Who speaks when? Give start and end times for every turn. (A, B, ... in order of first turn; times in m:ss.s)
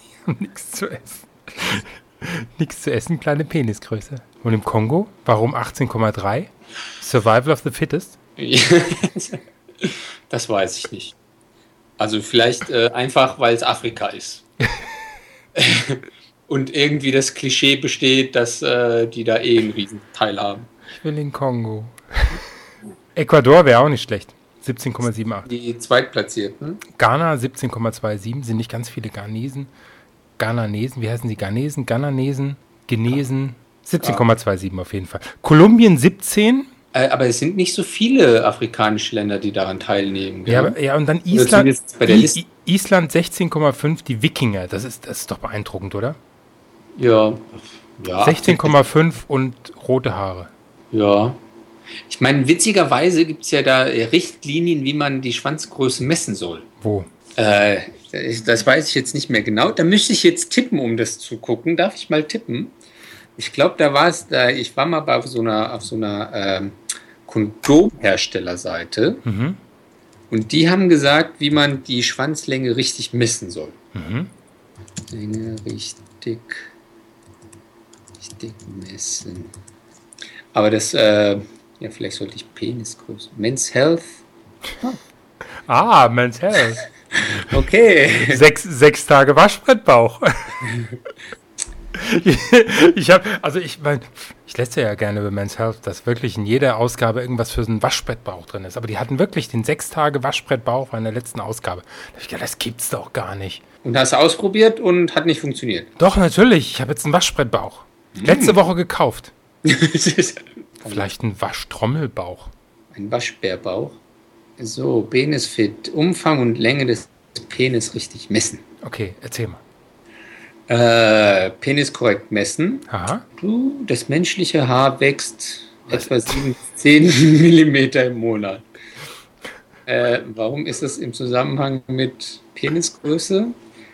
0:00.2-0:08.2 A
0:08.4-0:11.1 B
0:12.0-0:14.4 B
0:15.6-0:20.7 B
0:20.9-0:22.4 A
0:23.2-0:25.5 A
0:25.4-0:26.8 B
0:26.9-0:29.7 A
0:30.4-0:36.7 A
0:36.9-0:40.8 B
0:40.4-0:46.2 A
0:41.3-0:42.4 B
0:47.0-0:48.8 B
0:48.2-0:50.5 A
0:50.9-0:51.4 B
0:52.1-0:56.7 B
0:56.8-0:57.1 A
0:57.4-1:02.7 B
1:03.4-1:09.2 B
1:09.2-1:09.6 A
1:10.3-1:13.8 B
1:13.9-1:14.3 A
1:15.1-1:16.7 B
1:18.2-1:19.5 B
1:20.5-1:24.2 B
1:25.6-1:26.8 A
1:27.2-1:28.4 B
1:28.2-1:30.7 A
1:31.9-1:43.6 A
1:43.8-1:45.9 B
1:46.0-1:49.3 A
1:48.1-1:48.6 B
1:49.6-1:51.1 B
1:50.8-1:52.5 A
1:52.9-1:54.0 B
1:54.6-1:58.6 B
1:58.8-1:59.6 A
2:00.7-2:08.6 B
2:02.9-2:03.2 A
2:09.9-2:13.5 B